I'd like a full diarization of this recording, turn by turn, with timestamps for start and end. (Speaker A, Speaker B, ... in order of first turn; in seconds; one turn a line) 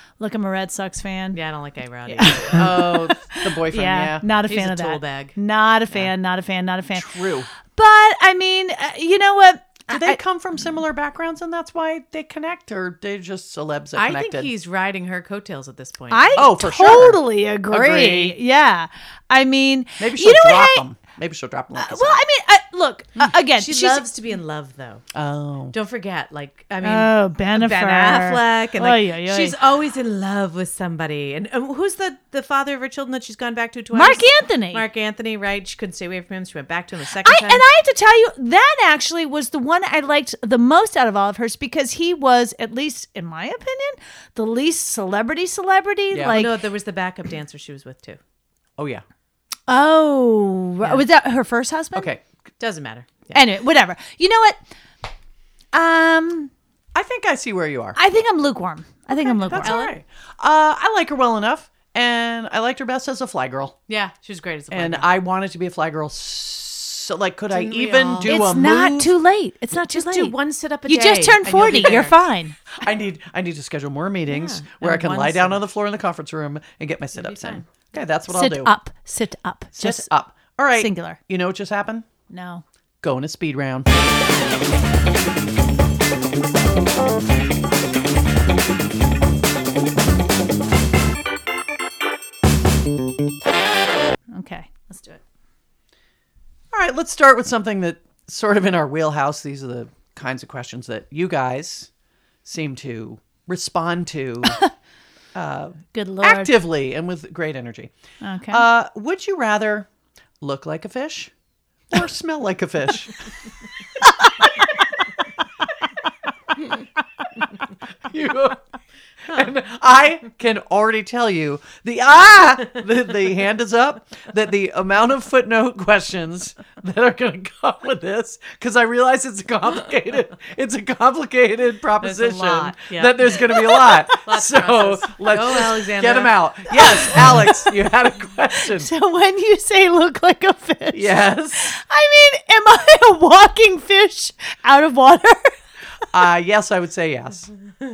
Speaker A: 0.2-1.4
Speaker B: 1.3-2.7
Speaker A: 2.1-7.1
Speaker C: 2.5-4.3
Speaker B: 4.5-5.4
Speaker C: 6.9-7.5
Speaker A: 7.7-10.2
Speaker C: 9.9-14.5
Speaker B: 13.9-16.5
Speaker A: 16.1-20.8
Speaker C: 16.4-18.4
Speaker C: 20.0-22.2
Speaker A: 21.8-24.1
Speaker B: 23.5-25.0
Speaker C: 25.1-25.7
Speaker B: 25.7-37.6
Speaker A: 26.8-29.5
Speaker A: 33.9-34.9
Speaker A: 37.2-46.6
Speaker C: 46.1-46.4
Speaker B: 46.3-48.2
Speaker C: 48.8-49.0
Speaker A: 49.7-52.1
Speaker C: 51.9-52.2
Speaker B: 52.6-53.4
Speaker A: 53.3-54.6
Speaker A: 55.7-56.5
Speaker C: 56.9-58.0
Speaker A: 58.0-59.8
Speaker B: 59.4-60.0
Speaker C: 59.5-63.8
Speaker B: 63.9-65.1
Speaker C: 64.7-69.1
Speaker B: 67.5-68.4
Speaker A: 68.2-70.3
Speaker B: 69.9-72.2
Speaker A: 70.9-72.6
Speaker C: 72.7-78.7
Speaker B: 74.3-75.6
Speaker B: 77.1-77.6
Speaker A: 78.3-80.1
Speaker C: 79.7-82.1
Speaker A: 80.7-81.2
Speaker A: 82.3-82.6
Speaker C: 83.0-84.1
Speaker A: 94.3-95.2
Speaker C: 96.7-101.9
Speaker C: 102.4-104.6
Speaker C: 105.3-107.9
Speaker A: 105.9-106.5
Speaker A: 108.2-108.7
Speaker C: 108.5-109.9
Speaker C: 110.4-111.3
Speaker C: 111.9-113.1
Speaker A: 114.2-114.5
Speaker C: 118.0-118.6
Speaker C: 119.2-138.9
Speaker B: 132.0-137.1
Speaker A: 136.9-137.5
Speaker A: 138.6-145.6
Speaker C: 140.9-141.8
Speaker C: 146.1-147.5